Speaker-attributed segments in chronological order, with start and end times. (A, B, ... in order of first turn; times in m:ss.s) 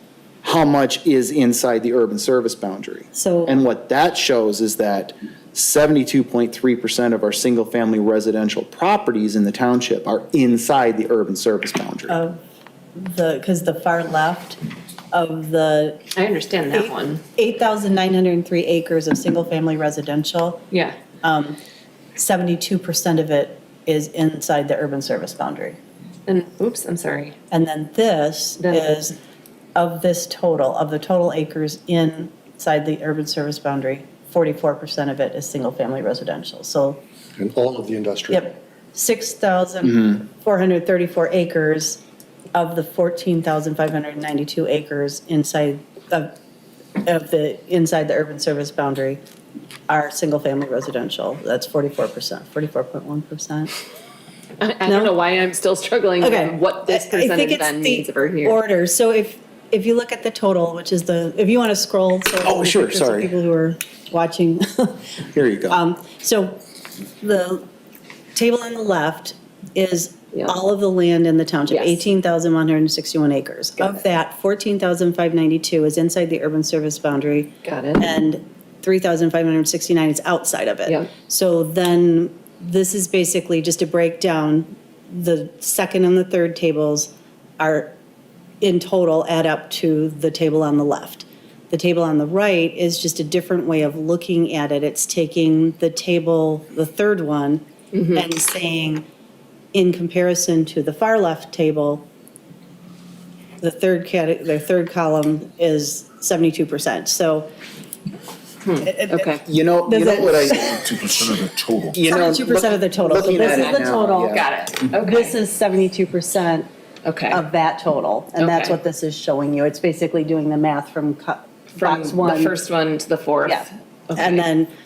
0:00.4-0:12.2 A
0:03.1-0:03.6 B
0:12.1-0:12.4 B
0:13.0-0:14.6 B
0:15.1-0:16.0 B
0:16.1-0:17.2 C
0:16.7-0:20.6 B
0:20.7-0:21.0 C
0:21.2-0:21.6 B
0:22.2-0:25.8 B
0:26.3-0:27.4 C
0:27.5-0:29.2 B
0:28.6-0:29.0 C
0:29.8-0:37.0 B
0:37.4-0:38.4 D
0:38.3-0:42.0 B
0:42.5-0:46.3 B
0:47.0-0:49.2 B
0:49.9-0:53.7 B
0:54.6-0:58.6 C
0:54.8-0:55.1 B
0:56.2-1:06.6 B
1:02.4-1:03.3 A
1:05.3-1:05.8 A
1:07.2-1:07.6 B
1:08.3-1:27.9 B
1:11.7-1:12.0 C
1:17.6-1:18.2 C
1:28.6-1:39.0 B
1:37.9-1:38.2 C
1:39.7-1:42.0 B
1:43.6-1:47.5 B
1:48.6-1:49.4 C
1:48.8-1:50.8 B
1:49.4-1:50.8 A
1:50.8-1:52.0 D
1:51.9-1:54.4 A
1:52.0-1:54.4 B
1:53.4-1:55.4 C
1:54.9-1:56.7 B
1:57.0-1:57.4 C
1:57.3-2:02.6 B
1:58.4-1:58.8 C
2:01.8-2:04.5 C
2:04.1-2:04.7 B